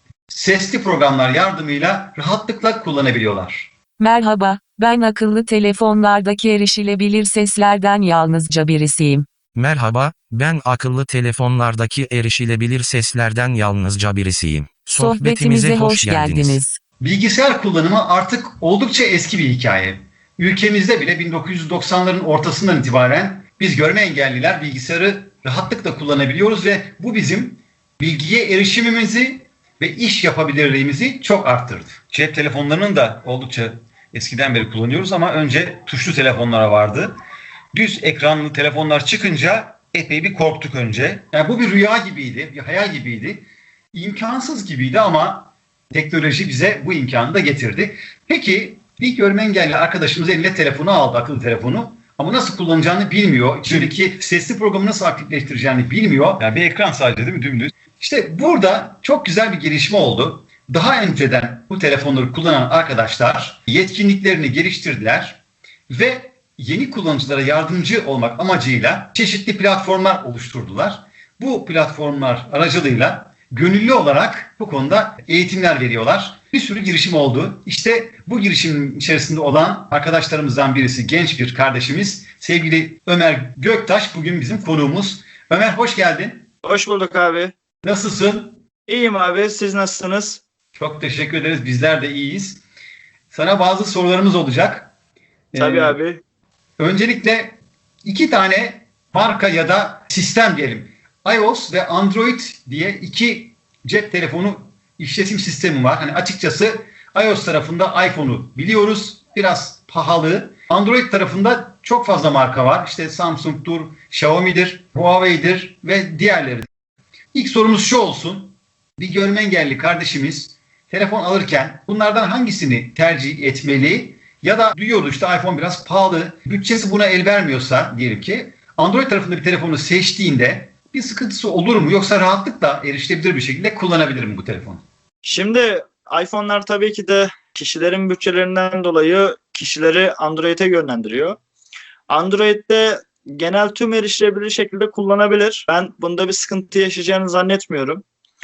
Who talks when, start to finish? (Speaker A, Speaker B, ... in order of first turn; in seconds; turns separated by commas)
Speaker A: 0.3-3.7, Speaker B: 4.0-9.3, Speaker C: 9.6-16.6, Speaker B: 15.0-16.8, Speaker A: 17.0-37.1, Speaker A: 38.3-86.5, Speaker D: 86.6-87.5, Speaker A: 87.8-88.6, Speaker D: 88.9-90.4, Speaker A: 90.8-92.6, Speaker A: 93.3-94.9, Speaker A: 95.5-96.0, Speaker D: 95.6-96.2, Speaker A: 96.8-116.7, Speaker A: 117.3-134.8, Speaker D: 135.2-141.4, Speaker D: 142.1-148.0